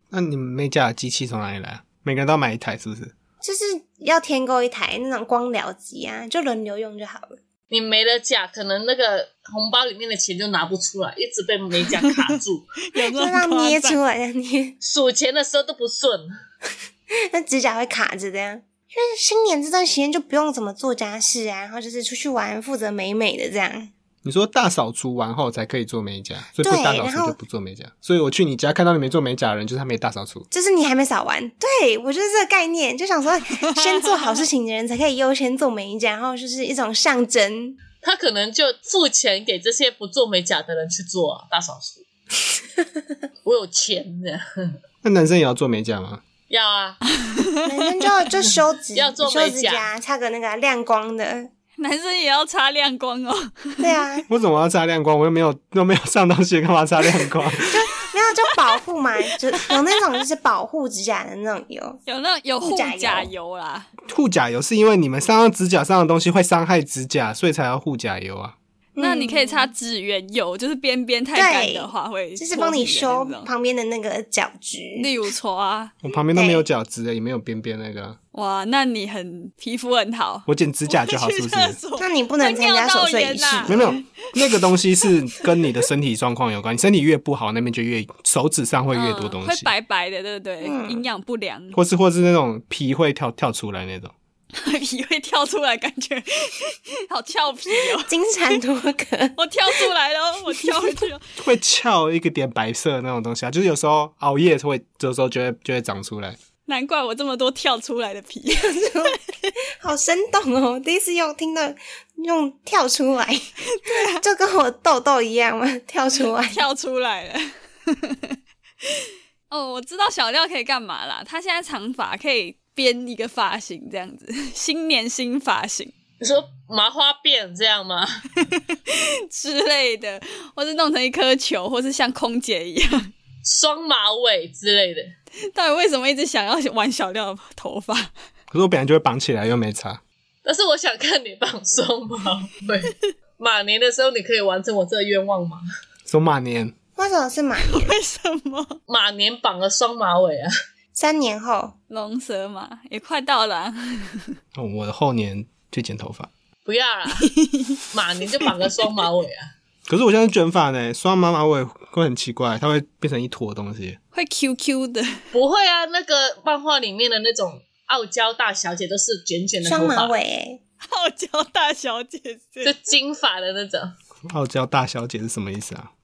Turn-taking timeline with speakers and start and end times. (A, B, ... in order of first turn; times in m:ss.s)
0:00.1-0:03.1 A
0:03.4-0:07.4 B
0:07.7-0:12.7 C
0:12.9-0:14.0 D
0:13.0-0:14.8 B
0:14.8-0:16.3 C
0:17.1-0:23.9 B
0:24.2-0:30.5 A
0:26.6-0:27.4 B
0:30.5-0:37.8 B
0:38.0-0:42.0 C
0:43.4-0:44.7 C
0:45.0-0:46.2 A
0:46.5-0:47.0 C
0:47.6-0:51.5 B
0:48.9-0:49.9 C
0:51.8-0:53.9 D
0:53.8-0:54.2 B
0:54.3-0:57.8 A
0:57.7-1:02.0 B
1:02.0-1:03.9 D
1:02.6-1:03.3 B
1:04.1-1:08.6 A
1:09.0-1:09.7 B
1:09.0-1:13.5 D
1:11.3-1:15.1 B
1:15.0-1:15.9 D
1:16.0-1:18.2 A
1:16.3-1:16.6 B
1:18.3-1:24.0 D
1:20.5-1:21.8 A
1:22.0-1:23.9 B
1:23.7-1:29.7 A
1:28.9-1:31.8 D
1:30.6-1:31.0 B
1:31.7-1:34.1 A
1:34.6-1:38.1 D
1:38.0-1:39.8 B
1:39.4-1:41.2 D
1:40.6-1:40.9 B
1:41.4-1:46.4 A
1:46.6-1:49.5 D
1:48.5-1:49.2 B
1:49.8-1:56.6 B
1:53.7-1:54.2 D
1:56.4-1:58.4 D
1:59.5-2:05.9 D
2:06.2-2:08.2 C
2:08.5-2:13.1 D
2:13.4-2:15.1 C
2:15.5-2:18.1 D
2:18.5-2:20.0 A
2:20.4-2:25.6 C
2:26.1-2:26.7 A
2:27.0-2:28.0 B
2:27.6-2:28.8 D
2:28.9-2:30.5 C
2:30.9-2:31.7 B
2:31.9-2:34.3 D
2:34.5-2:36.3 A
2:36.6-2:37.3 C
2:37.2-2:37.8 D
2:37.9-2:39.5 C
2:39.9-2:44.0 A
2:44.1-2:45.2 D
2:45.3-2:50.1 C
2:49.6-2:50.6 B
2:50.9-2:52.7 D
2:52.6-2:53.9 C
2:54.3-2:55.9 A